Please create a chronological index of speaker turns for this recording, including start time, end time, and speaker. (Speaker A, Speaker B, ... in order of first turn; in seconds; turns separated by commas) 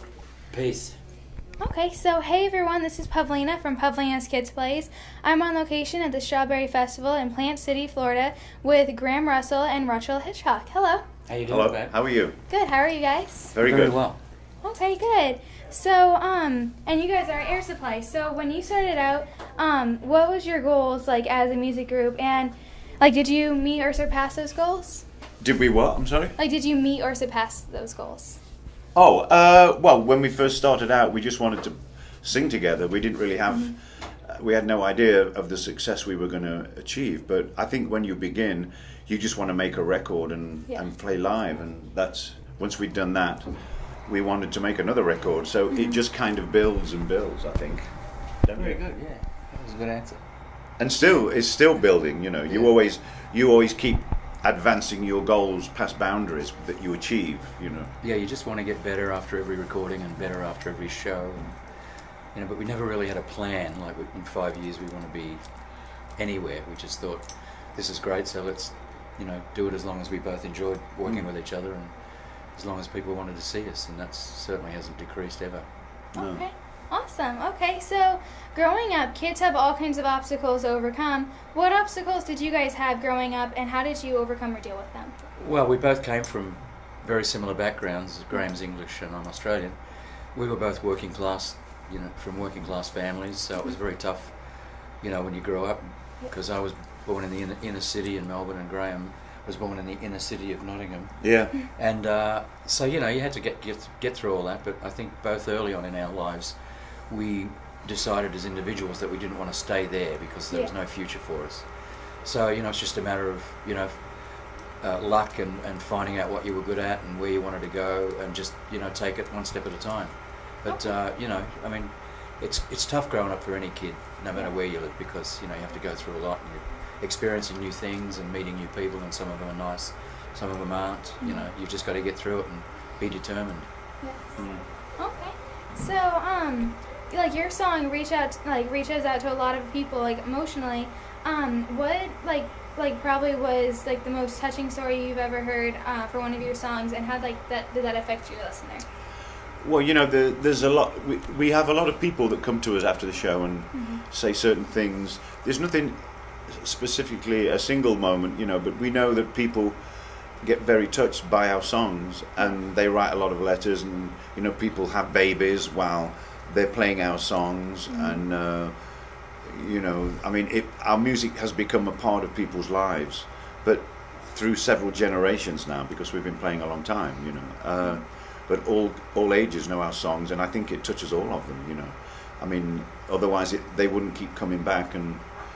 Speaker A: 0.5-1.0, Speaker B: 1.6-11.1, Speaker A: 11.2-11.9, Speaker C: 11.5-12.4, Speaker B: 12.5-13.5, Speaker C: 13.5-13.9, Speaker A: 13.6-14.2, Speaker B: 14.6-25.0, Speaker C: 25.4-26.4, Speaker B: 26.4-28.4, Speaker C: 28.9-43.5, Speaker C: 44.0-47.9, Speaker B: 45.7-46.0, Speaker C: 48.4-48.8, Speaker A: 48.5-50.2, Speaker C: 50.8-57.9, Speaker A: 58.0-61.7, Speaker A: 62.3-71.9, Speaker A: 72.5-75.7, Speaker B: 76.1-85.2, Speaker C: 76.2-76.4, Speaker A: 85.4-89.8, Speaker A: 90.3-133.7, Speaker C: 101.2-101.6, Speaker B: 120.7-120.9, Speaker B: 131.2-131.5, Speaker C: 134.3-134.6, Speaker B: 135.0-148.8, Speaker C: 149.6-156.0, Speaker B: 153.7-154.0, Speaker C: 156.5-159.8, Speaker C: 160.4-168.8, Speaker B: 167.9-168.2, Speaker C: 169.4-185.2